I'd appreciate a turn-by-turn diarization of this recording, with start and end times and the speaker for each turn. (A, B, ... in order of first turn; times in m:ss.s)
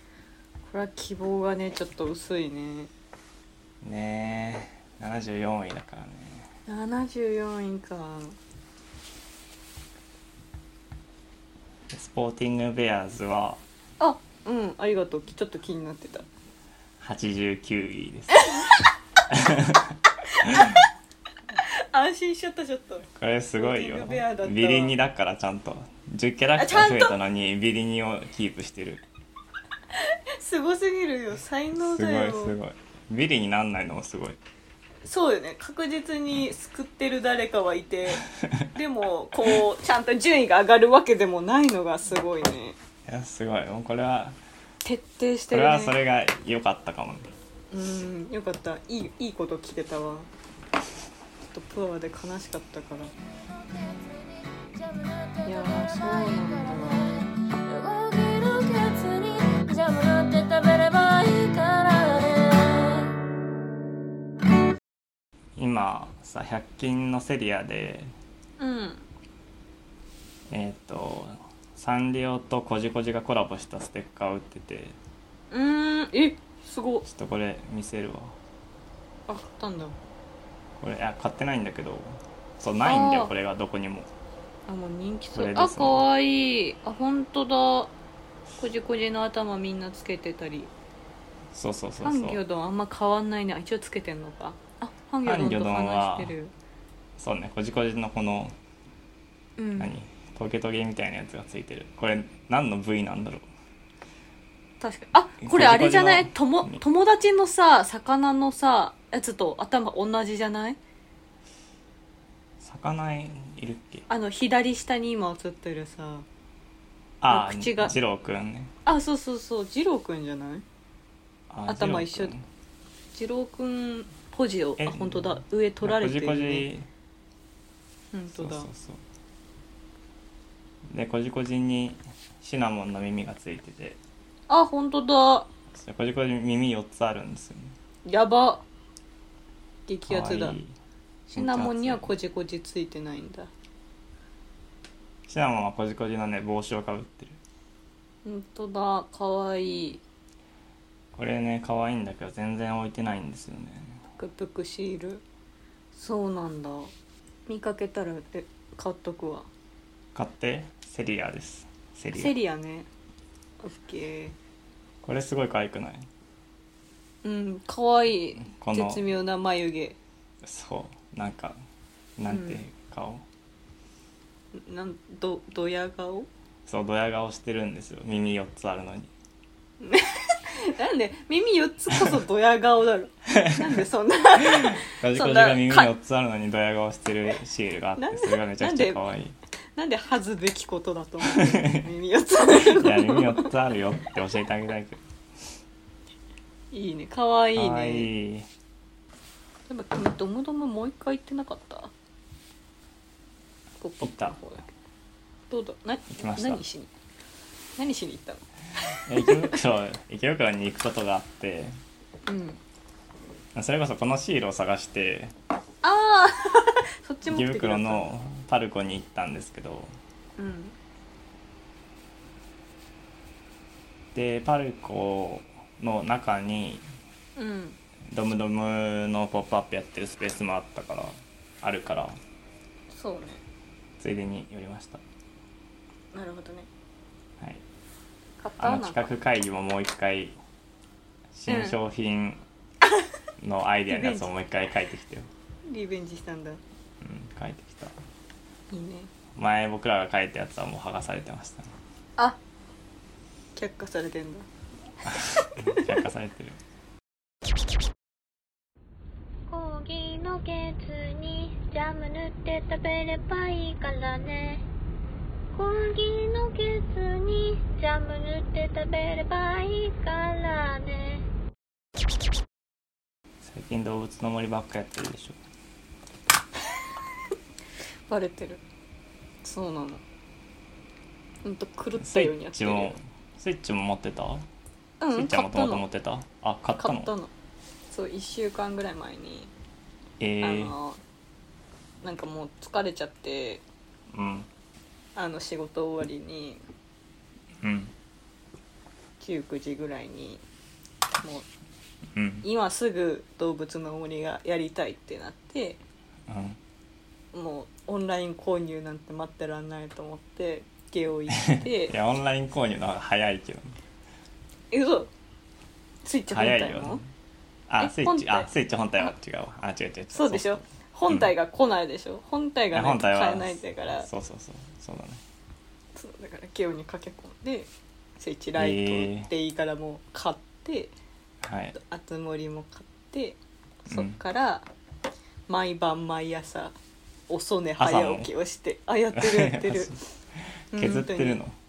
0:00.7-0:02.9 A
0:03.8-0:06.5 B
0:06.7-0:08.4 A
0:11.9-0:13.6 B
0:14.0-0:16.2 A
0:17.0-0:18.5 B
0:18.3-0:18.9 A
0:19.3-0:20.8 B
0:20.4-0:20.8 A
0:21.8-0:25.0 A
0:23.2-0:29.0 B
0:26.6-0:27.2 A
0:30.0-0:32.6 A
0:31.8-0:34.4 B
0:35.0-0:42.8 A
0:38.4-0:38.7 B
0:43.1-0:44.4 B
0:44.8-0:46.0 A
0:45.5-0:47.3 B
0:47.7-0:50.3 A
0:51.5-0:53.1 A
0:54.8-1:03.2 C
0:55.4-0:57.2 A
1:05.6-1:08.1 B
1:08.6-1:09.1 A
1:10.5-1:15.0 B
1:15.5-1:17.1 A
1:17.0-1:18.4 B
1:19.3-1:20.0 A
1:20.8-1:24.1 B
1:22.8-1:23.3 A
1:24.7-1:27.9 A
1:25.4-1:26.0 B
1:28.6-1:30.7 A
1:31.5-1:32.4 B
1:32.0-1:36.5 A
1:35.2-1:36.3 B
1:37.2-1:38.6 B
1:39.6-1:39.9 A
1:39.8-1:43.5 B
1:44.8-1:50.8 A
1:45.4-1:46.8 B
1:52.6-1:54.1 B
1:54.1-1:56.3 A
1:57.2-1:58.7 B
1:57.3-1:58.0 A
1:58.8-2:00.6 A
2:01.5-2:02.5 B
2:01.7-2:02.4 A
2:03.1-2:06.7 A
2:04.8-2:06.9 B
2:08.1-2:08.7 A
2:08.3-2:09.0 B
2:10.9-2:14.0 B
2:14.5-2:15.5 A
2:15.7-2:17.8 B
2:18.1-2:18.6 A
2:19.9-2:20.6 A
2:20.1-2:20.8 B
2:21.3-2:23.5 A
2:21.4-2:22.1 B
2:25.3-2:27.4 B
2:28.2-2:30.0 A
2:31.1-2:34.0 B
2:34.2-2:35.2 A
2:35.9-2:36.9 A
2:37.5-2:39.5 A
2:40.2-2:42.4 B
2:42.1-2:42.9 A
2:43.6-2:44.4 A
2:45.0-2:46.1 B
2:47.2-2:50.0 A
2:48.5-2:49.0 B
2:50.4-2:51.6 B
2:52.2-2:53.2 B
2:52.3-2:52.6 A
2:54.6-2:56.3 A
2:56.7-2:59.1 B
2:59.8-3:05.9 A
3:03.3-3:03.7 B
3:04.4-3:09.4 B
3:08.0-3:09.0 A
3:09.8-3:13.5 A
3:11.3-3:11.8 B
3:12.5-3:15.0 B
3:16.7-3:18.1 A
3:17.6-3:18.5 B
3:19.7-3:21.9 A
3:23.8-3:24.7 A
3:24.0-3:24.4 B
3:25.5-3:26.9 A
3:26.1-3:26.6 B
3:27.8-3:29.6 A
3:29.0-3:31.8 B
3:32.2-3:32.6 A
3:33.6-3:35.3 B
3:35.8-3:38.1 A
3:37.3-3:39.9 B
3:40.4-3:40.8 A
3:44.1-3:46.8 B
3:47.4-3:47.8 A
3:48.1-3:52.2 B
3:52.9-3:53.4 A
3:54.0-3:55.0 B
3:56.1-3:56.7 A
3:58.4-3:59.1 A
3:58.6-4:00.4 B
4:01.3-4:02.4 B
4:01.5-4:01.8 A
4:03.4-4:05.3 B
4:03.9-4:04.3 A
4:05.7-4:06.6 A
4:07.0-4:08.0 B
4:08.7-4:09.1 A
4:09.4-4:11.7 B
4:13.6-4:14.5 A
4:15.1-4:16.6 B
4:15.2-4:15.9 A
4:19.5-4:24.6 C
4:25.5-4:31.2 C
4:33.4-4:35.4 B
4:38.1-4:38.6 A
4:39.4-4:40.0 A
4:41.4-4:43.0 A
4:42.0-4:44.5 B
4:45.0-4:45.8 A
4:45.1-4:47.1 B
4:46.8-4:47.3 A
4:47.9-4:49.5 A
4:50.2-4:50.8 B
4:50.4-4:51.0 A
4:52.0-4:53.6 A
4:54.1-4:54.5 B
4:55.2-4:56.6 A
4:57.6-4:57.9 B
4:59.2-5:00.4 A
5:01.2-5:01.5 A
5:02.1-5:02.5 B
5:02.4-5:05.8 A
5:06.3-5:06.6 B
5:07.3-5:11.9 A
5:11.5-5:13.8 B
5:14.7-5:15.1 A
5:16.0-5:17.0 A
5:16.3-5:17.0 B
5:17.7-5:21.3 B
5:17.8-5:19.1 A
5:20.1-5:24.1 A
5:22.7-5:25.2 B
5:26.0-5:30.9 A
5:28.6-5:29.3 B
5:31.4-5:31.8 B
5:31.7-5:34.7 A
5:33.9-5:34.2 B
5:35.5-5:36.8 A
5:37.3-5:40.0 A
5:37.8-5:38.3 B
5:39.2-5:40.0 B
5:40.7-5:41.4 A
5:40.7-5:41.6 B